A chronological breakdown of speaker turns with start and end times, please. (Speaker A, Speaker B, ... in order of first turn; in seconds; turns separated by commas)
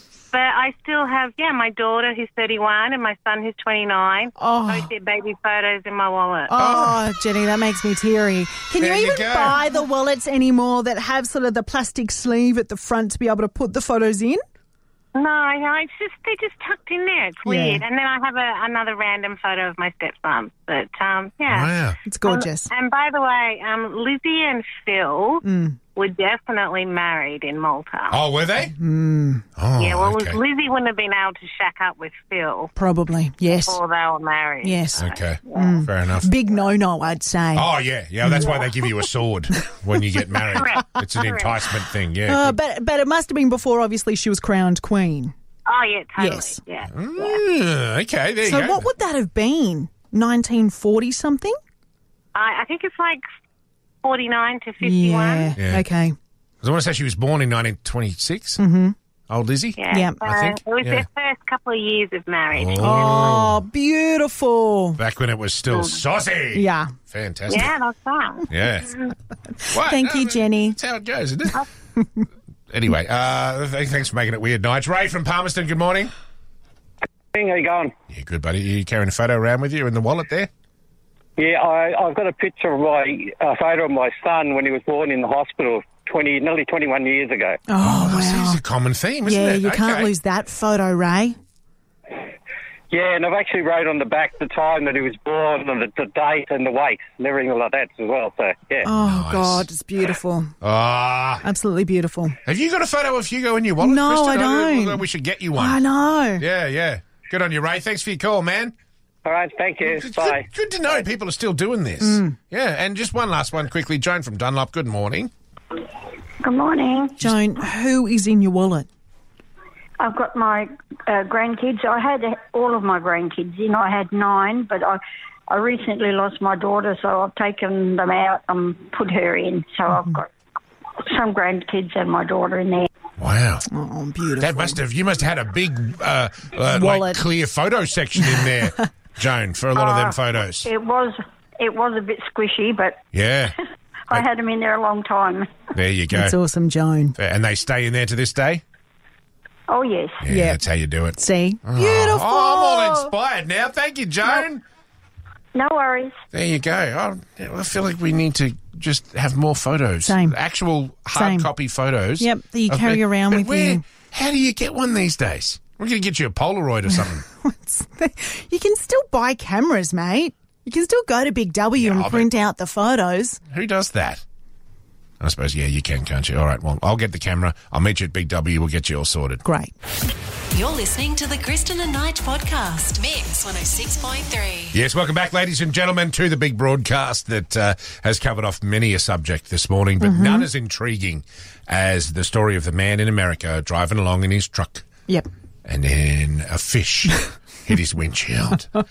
Speaker A: 0.3-6.6, Speaker B: 4.4-4.9, Speaker B: 6.5-14.4, Speaker C: 6.5-7.0, Speaker C: 8.8-9.6, Speaker A: 15.1-28.2, Speaker B: 17.4-17.8, Speaker C: 21.5-22.0, Speaker B: 22.1-22.7, Speaker B: 25.4-25.8, Speaker C: 28.1-28.8, Speaker B: 28.8-29.4, Speaker C: 29.6-30.4, Speaker A: 29.8-32.7, Speaker B: 32.8-33.8, Speaker A: 33.6-35.8, Speaker B: 34.6-35.0, Speaker C: 35.0-36.3, Speaker B: 35.5-37.7, Speaker C: 37.5-42.6, Speaker B: 38.2-38.7, Speaker A: 40.5-41.6, Speaker B: 42.3-45.3, Speaker A: 45.7-47.4, Speaker B: 46.2-46.6, Speaker C: 46.9-48.8, Speaker B: 48.4-51.6, Speaker A: 52.3-53.2, Speaker A: 54.0-55.6, Speaker B: 54.8-56.1, Speaker C: 55.6-55.8, Speaker C: 56.6-58.6, Speaker B: 58.6-59.0, Speaker C: 59.3-61.0, Speaker A: 59.8-63.1, Speaker B: 59.9-60.2, Speaker C: 62.5-63.6, Speaker B: 62.8-65.0, Speaker C: 65.0-67.7, Speaker A: 65.7-66.0, Speaker B: 66.5-66.9, Speaker A: 67.5-68.5, Speaker C: 68.5-69.0, Speaker C: 69.7-71.6, Speaker B: 69.7-70.8, Speaker C: 72.7-76.1, Speaker D: 77.3-77.9, Speaker C: 78.1-80.5, Speaker D: 81.4-87.6, Speaker B: 87.7-88.6, Speaker C: 87.8-90.1, Speaker B: 89.2-91.4, Speaker D: 92.9-98.9, Speaker B: 98.8-100.5, Speaker C: 98.9-99.7, Speaker C: 100.6-101.4, Speaker B: 101.4-102.4, Speaker C: 102.5-105.8, Speaker B: 103.8-105.0, Speaker B: 105.6-106.4, Speaker C: 106.4-108.7, Speaker D: 109.2-110.5, Speaker C: 109.8-115.3, Speaker B: 112.0-112.4, Speaker E: 116.4-117.2, Speaker B: 117.2-118.9, Speaker E: 120.0-130.3, Speaker E: 131.1-132.9, Speaker C: 133.2-133.7, Speaker B: 133.7-134.8, Speaker C: 134.4-140.7, Speaker B: 136.7-137.2, Speaker E: 139.8-143.0, Speaker C: 143.1-143.6, Speaker E: 144.1-145.5, Speaker C: 145.8-146.4, Speaker B: 146.1-147.2, Speaker C: 147.2-148.6, Speaker E: 149.7-150.2, Speaker C: 150.2-154.6, Speaker B: 150.3-150.6, Speaker B: 151.1-153.1, Speaker E: 155.6-156.2, Speaker C: 156.3-167.2, Speaker B: 160.0-160.3, Speaker B: 161.1-161.5, Speaker B: 162.2-163.8, Speaker B: 167.4-173.4, Speaker C: 171.8-172.3, Speaker C: 173.5-174.2, Speaker C: 175.2-179.4, Speaker B: 179.4-179.7, Speaker F: 180.5-184.7, Speaker C: 184.7-194.9, Speaker B: 190.0-190.5, Speaker C: 195.7-198.7